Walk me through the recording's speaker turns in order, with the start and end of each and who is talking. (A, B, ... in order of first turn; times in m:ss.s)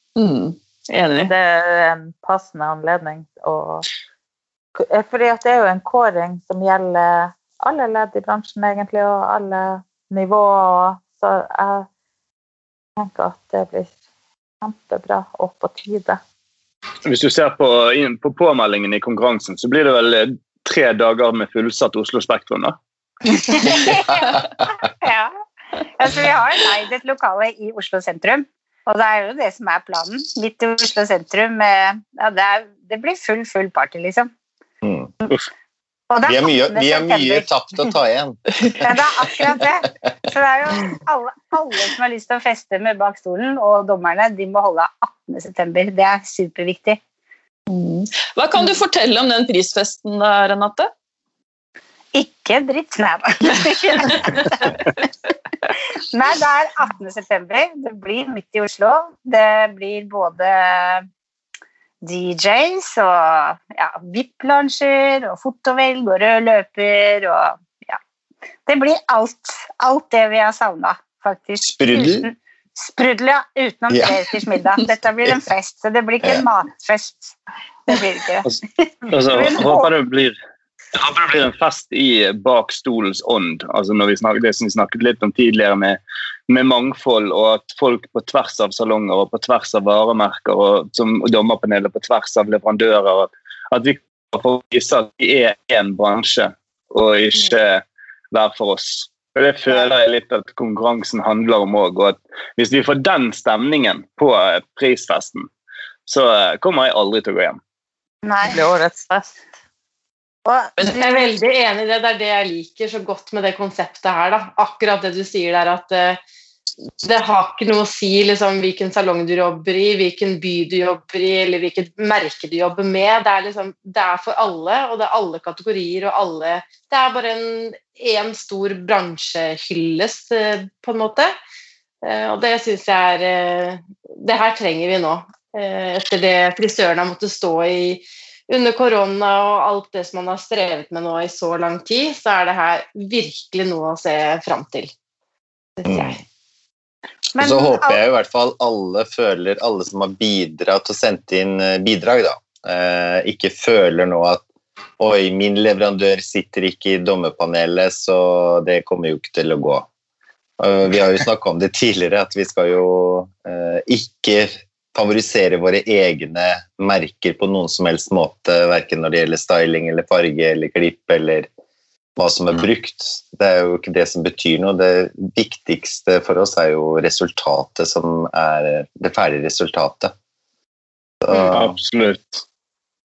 0:00.2-0:01.3 A
0:01.2-0:03.8 B
0:04.8-0:11.9 B
0:13.0-0:13.9 B
0:14.6-0:16.2 B
0:17.0-0:22.8 C
0:23.3-0:25.3 D
0:26.0-0:34.3 D
0:34.8-0:35.1 E
0:36.1-0:37.4 D
0:36.2-0:38.4 E
0:38.8-0:47.0 D
0:47.7-0:50.9 A
0:52.1-0:54.8 D
0:56.0-1:01.1 D
1:02.0-1:08.0 D
1:08.7-1:19.9 D
1:11.6-1:12.3 E
1:13.9-1:14.2 E
1:19.1-1:20.4 C
1:21.0-1:45.5 C
1:46.1-1:47.6 C
1:48.2-1:48.6 D
1:48.5-1:49.4 B
1:50.5-1:51.2 D
1:51.0-1:56.2 F
1:57.0-2:11.4 F
2:12.0-2:24.9 F
2:25.8-2:26.2 F
2:25.9-2:26.2 E
2:27.3-2:28.0 D
2:27.4-2:34.4 E
2:35.0-2:39.9 E
2:40.6-2:51.5 E
2:52.2-3:00.1 E
3:01.2-3:01.8 E
3:01.5-3:02.4 C